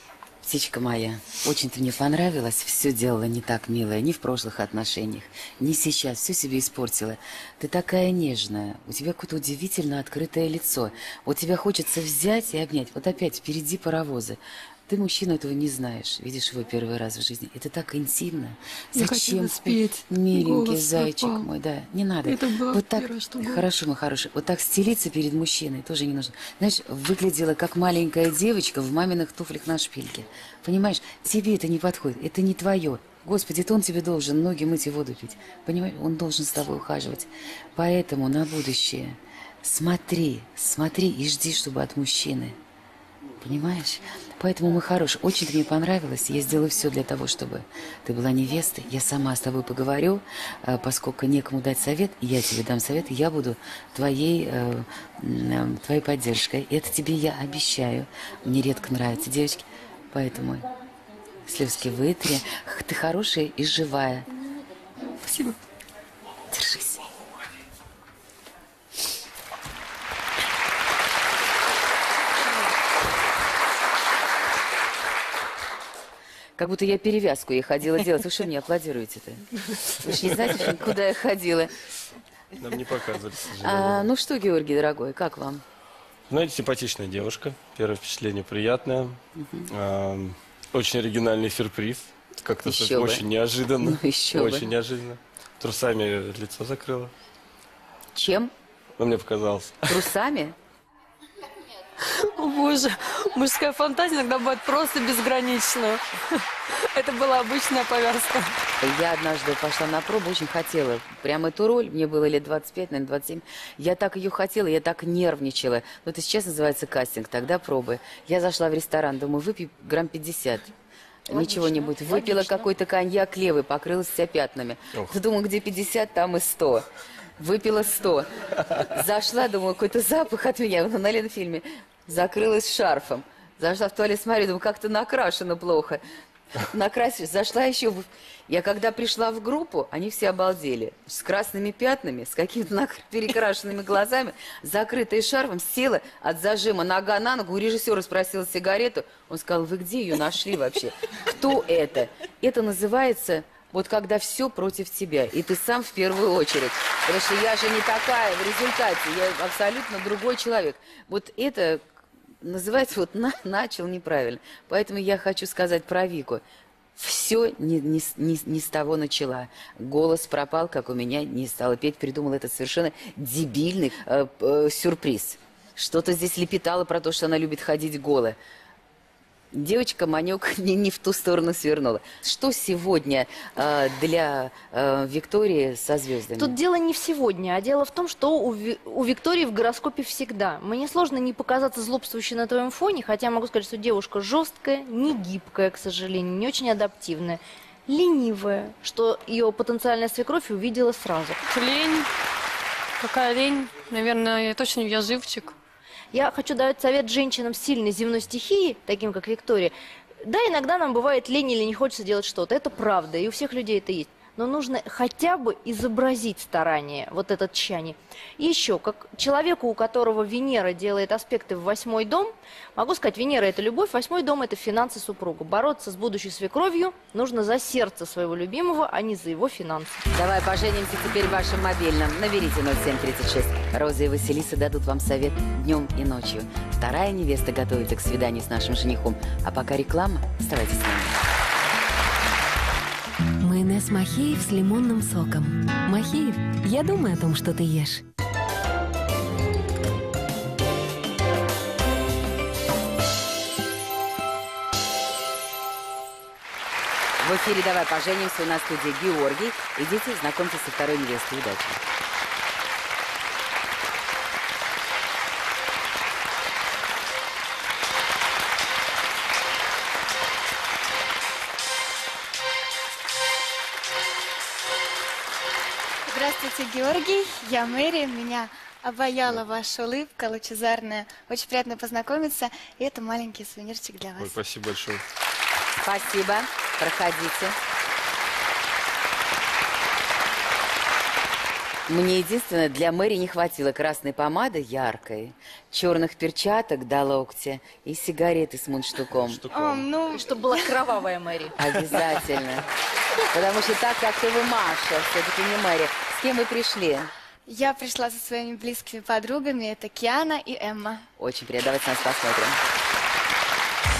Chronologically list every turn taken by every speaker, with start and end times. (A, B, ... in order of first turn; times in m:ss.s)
0:00.4-0:42.6 A
0:18.9-0:21.5 B
0:22.2-0:23.7 B
0:43.4-1:00.7 A
1:01.5-1:04.3 A
1:05.2-1:05.6 B
1:06.5-1:07.0 A
1:16.6-1:19.4 A
1:20.0-1:21.7 A
1:22.6-1:24.1 C
1:23.6-1:25.6 A
1:26.3-1:29.2 C
1:29.4-1:29.7 A
1:29.7-1:37.1 C
1:32.6-1:33.2 A
1:33.8-1:34.7 A
1:38.1-1:38.5 A
1:39.0-1:40.0 C
1:39.9-1:40.6 A
1:42.4-1:46.0 B
1:46.9-1:48.5 B
1:48.8-2:00.7 A
2:01.3-2:06.9 A
2:07.4-2:08.3 A
2:08.8-2:16.0 A
2:16.7-2:41.8 A
2:42.4-2:46.4 A
2:47.0-2:58.4 A
2:59.5-3:06.6 A
3:06.4-3:21.4 D
3:21.5-3:22.1 B
3:23.0-3:25.6 B
3:26.1-3:50.1 D
3:50.1-4:01.2 A
4:03.4-4:08.0 E
4:17.2-4:21.8 A
4:36.1-4:44.4 F
4:44.2-4:45.0 C
4:45.8-4:47.6 A
4:51.9-4:59.4 A
4:59.5-4:59.8 C
4:59.5-5:00.7 F
5:00.1-5:01.6 D
5:01.6-5:02.7 A
5:03.3-5:07.1 A
5:07.5-5:11.0 F
5:11.2-5:12.6 A